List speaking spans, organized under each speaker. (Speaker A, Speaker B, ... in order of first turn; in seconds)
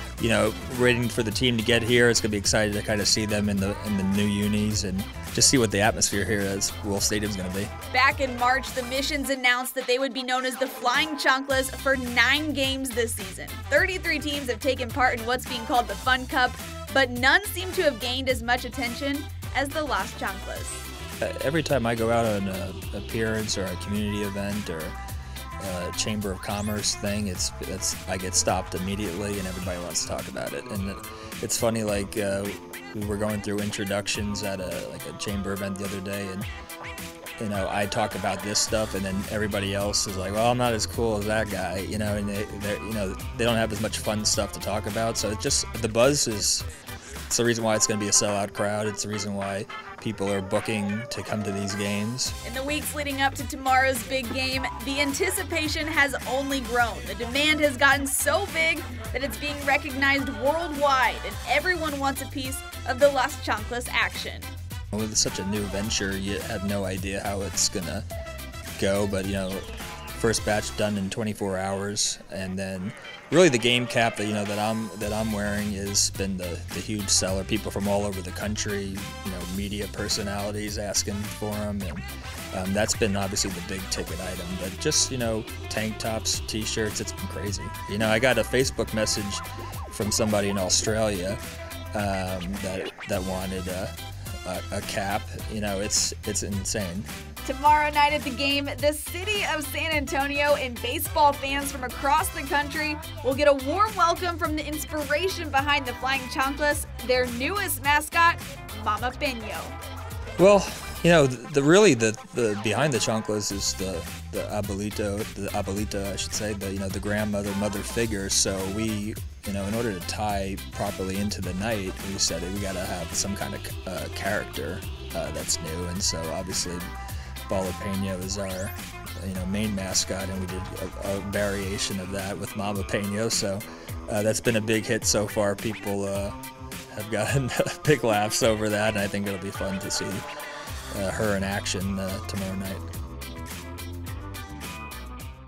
Speaker A: 0.2-7.7, 21.2-25.0, 25.6-36.5, 37.4-46.6, 47.3-52.4, 64.9-68.0, 68.8-91.4, 91.9-97.1, 110.4-126.8, 127.5-136.4, 136.9-140.2, 140.9-142.9
Speaker B: 7.9-20.8, 52.4-64.5, 97.4-109.7